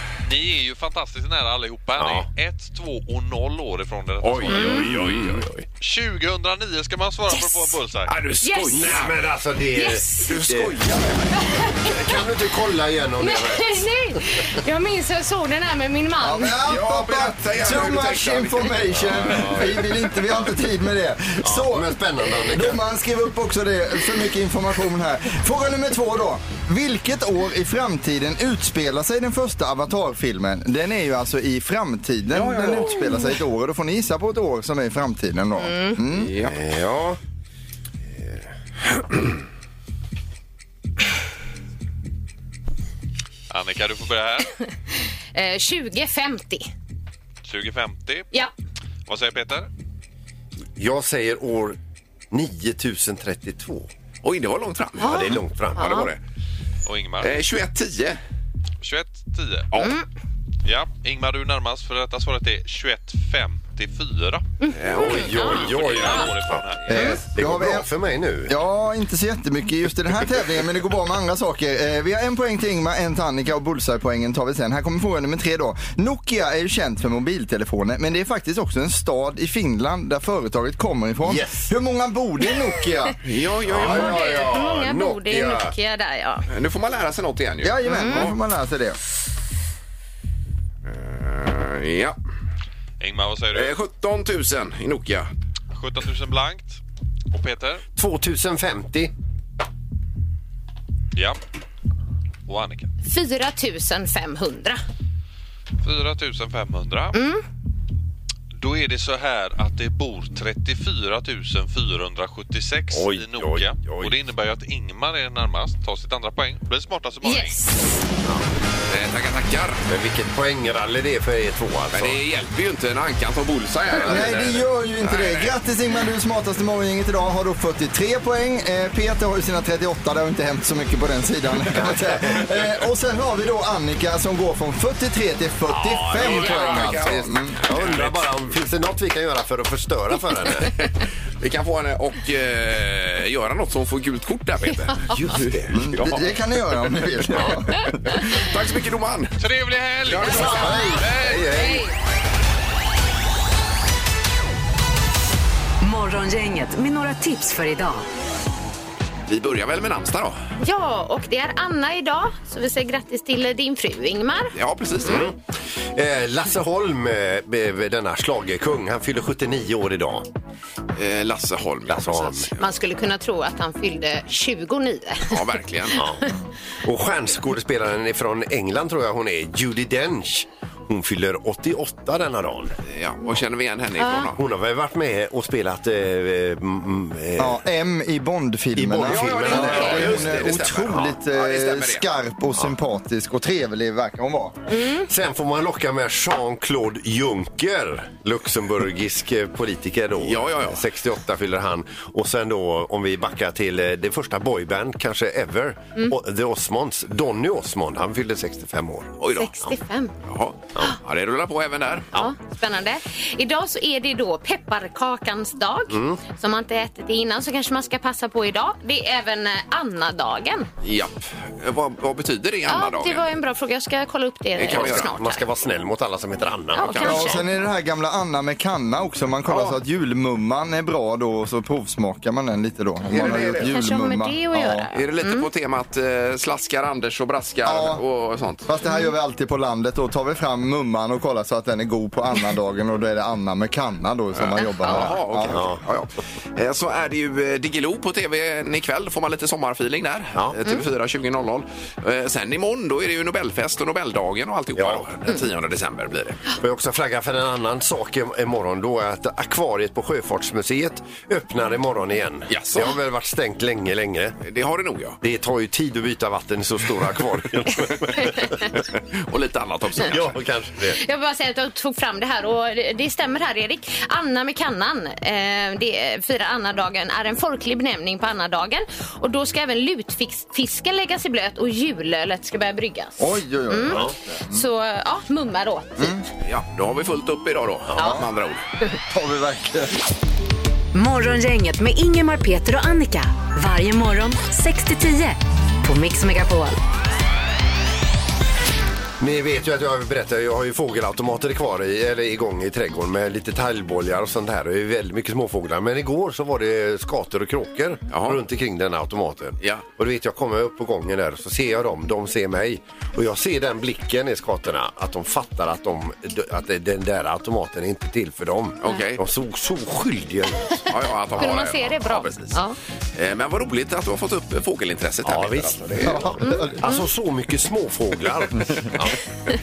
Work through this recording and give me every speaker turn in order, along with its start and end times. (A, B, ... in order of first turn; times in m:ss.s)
0:00.2-0:04.9 A
0:02.0-0:02.3 B
0:04.2-0:05.7 C
0:04.5-0:04.8 D
0:04.8-0:05.4 B
0:05.8-0:08.2 A
0:07.3-0:07.8 D
0:08.1-0:09.2 C
0:08.4-0:09.0 D
0:08.7-0:10.8 B
0:09.8-0:10.3 D
0:10.3-0:11.7 C
0:11.3-0:12.1 D
0:11.9-0:13.9 B
0:13.2-0:16.6 D
0:16.2-0:36.3 E
0:16.6-0:20.0 C
0:19.1-0:19.6 B
0:21.4-0:22.8 B
0:32.3-0:33.1 C
0:33.0-0:33.3 D
0:35.6-0:36.0 D
0:36.1-0:36.6 C
0:36.4-0:37.2 B
0:43.5-0:44.5 A
0:45.4-0:46.7 D
0:47.4-0:48.3 A
0:49.1-0:49.7 A
0:50.8-0:51.8 B
0:52.3-0:53.9 B
0:54.2-0:56.2 C
0:55.0-0:56.1 D
0:55.0-0:56.1 B
0:56.8-0:57.4 A
0:57.2-0:58.2 C
0:58.8-0:59.7 A
1:00.6-1:04.4 A
1:04.6-1:06.3 D
1:04.7-1:06.2 C
1:04.9-1:08.5 B
1:05.1-1:07.2 A
1:06.9-1:07.9 E
1:06.9-1:07.2 D
1:08.5-1:23.2 E
1:21.2-1:21.7 B
1:23.2-1:24.5 C
1:23.7-1:25.8 B
1:23.9-1:26.5 D
1:26.5-1:28.4 C
1:27.6-1:29.0 E
1:27.9-1:28.3 D
1:30.9-1:32.2 C
1:33.0-1:33.8 A
1:33.5-1:35.3 C
1:35.8-1:36.8 A
1:37.3-1:37.8 A
1:38.0-1:39.1 B
1:42.5-1:42.9 A
1:43.0-1:44.8 D
1:45.8-1:47.2 A
1:47.1-1:47.4 D
1:48.6-1:57.6 A
1:52.9-1:54.2 B
1:57.2-1:58.0 D
1:58.9-1:59.8 C
1:59.9-2:02.2 B
2:01.9-2:05.5 C
2:04.0-2:17.6 E
2:11.8-2:12.4 B
2:15.7-2:20.8 B
2:16.1-2:18.2 C
2:20.8-2:26.2 C
2:25.1-2:25.8 B
2:25.7-2:28.2 E
2:28.2-2:29.4 C
2:29.4-2:31.6 A
2:30.0-2:30.6 C
2:30.2-2:31.8 B
2:30.2-2:31.9 D
2:35.8-2:38.0 F
2:39.3-2:40.4 C
2:40.6-2:44.5 D
2:44.5-2:45.3 C
2:45.0-2:45.4 B
2:45.9-2:50.3 B
2:51.0-2:52.6 C
2:51.9-2:52.5 B
2:52.6-2:55.4 D
2:55.3-2:56.0 C
2:56.0-3:02.8 B
3:02.9-3:04.4 C
3:04.0-3:04.3 D
3:04.4-3:07.6 B
3:07.4-3:14.6 E
3:08.8-3:11.1 B
3:09.1-3:12.0 C
3:14.7-3:15.1 D
3:15.0-3:29.2 B
3:20.2-3:20.8 C
3:29.2-3:29.5 C
3:29.3-3:30.1 D
3:30.2-3:32.1 C
3:32.1-3:40.7 D
3:35.9-3:36.2 B
3:40.8-3:43.3 C
3:42.7-3:45.4 D
3:44.6-3:45.2 C
3:44.7-3:47.4 B
3:46.8-3:47.4 D
3:46.8-3:47.4 C
3:47.0-3:54.9 E
3:49.5-3:49.8 C
3:53.1-3:53.7 C
3:53.2-3:55.5 D
3:54.9-3:58.7 C
3:57.6-3:58.0 E
3:58.6-4:05.6 E
3:58.9-3:59.1 D
4:04.4-4:16.4 C
4:04.6-4:05.1 D
4:05.5-4:05.8 B
4:14.8-4:15.1 B
4:16.6-4:24.4 B
4:22.5-4:22.9 C
4:24.4-4:25.2 C
4:25.2-4:28.7 B
4:29.0-4:30.4 C
4:30.0-4:31.0 B
4:30.9-4:46.2 D
4:43.2-4:44.6 E
4:46.4-4:48.6 C
4:48.0-4:48.3 E
4:49.1-4:50.0 E
4:50.9-4:56.8 F
4:59.2-5:20.9 B
5:08.1-5:08.4 C
5:18.8-5:19.2 C
5:20.9-5:22.6 C
5:21.4-5:22.8 D
5:23.2-5:26.4 C
5:25.2-5:29.2 B
5:26.0-5:26.8 E
5:26.4-5:27.0 D